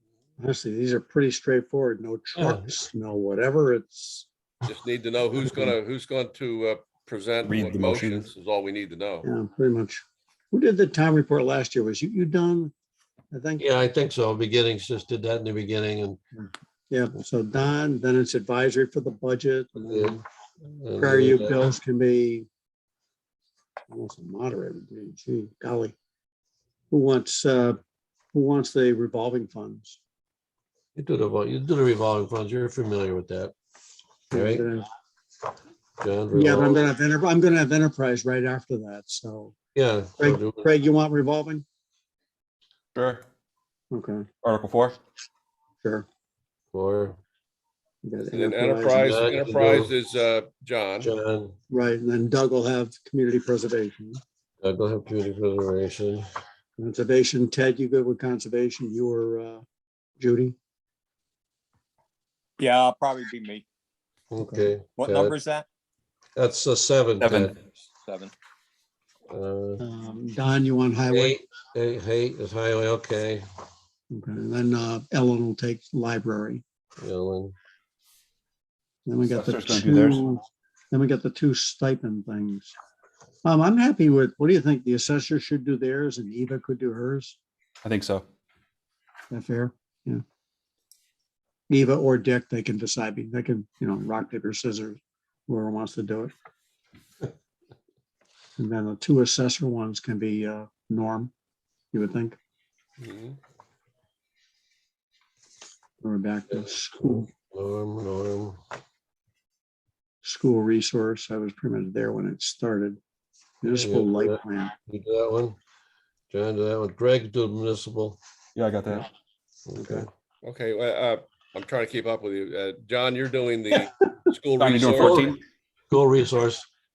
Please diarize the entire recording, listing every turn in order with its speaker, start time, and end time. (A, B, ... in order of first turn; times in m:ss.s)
0:00.4-0:04.3 A
0:02.4-0:02.7 B
0:04.6-0:09.3 C
0:07.4-0:08.3 D
0:09.2-0:12.7 A
0:13.3-0:13.7 A
0:13.6-0:16.2 B
0:16.9-0:20.2 A
0:19.8-0:21.7 B
0:21.0-0:22.5 A
0:23.9-0:26.0 A
0:26.9-0:27.8 A
0:28.3-0:30.0 A
0:30.9-0:33.5 B
0:34.3-0:34.8 A
0:34.3-0:34.7 B
0:36.0-0:36.9 B
0:36.3-0:39.6 A
0:39.7-0:40.6 B
0:40.2-0:41.6 A
0:42.9-0:43.2 D
0:43.9-0:44.3 A
0:44.4-0:45.0 D
0:46.7-0:47.2 B
0:48.0-0:49.2 A
0:48.3-0:51.1 C
0:48.9-0:49.9 B
0:51.0-0:51.5 B
0:51.7-0:54.2 A
0:54.6-0:56.2 B
0:56.8-0:59.6 A
1:00.2-1:00.6 A
1:02.6-1:03.6 E
1:04.3-1:05.4 B
1:04.4-1:04.6 A
1:05.0-1:05.7 E
1:06.4-1:07.5 B
1:07.2-1:08.3 E
1:09.3-1:09.8 B
1:09.8-1:11.4 A
1:11.1-1:13.4 B
1:14.1-1:16.6 A
1:17.0-1:17.5 B
1:19.0-1:22.7 A
1:19.3-1:20.2 D
1:23.4-1:27.4 A
1:27.8-1:28.2 D
1:29.3-1:30.2 A
1:31.7-1:36.3 A
1:38.6-1:41.3 A
1:41.9-1:42.4 A
1:43.0-1:43.4 C
1:46.0-1:47.3 A
1:46.6-1:48.6 B
1:50.2-1:53.0 A
1:53.6-1:54.7 A
1:53.7-1:55.6 B
1:56.3-1:58.2 B
1:58.6-1:59.1 D
1:59.7-2:00.1 B
1:59.8-2:00.1 A
2:00.4-2:05.3 C
2:04.6-2:05.4 D
2:04.9-2:06.6 B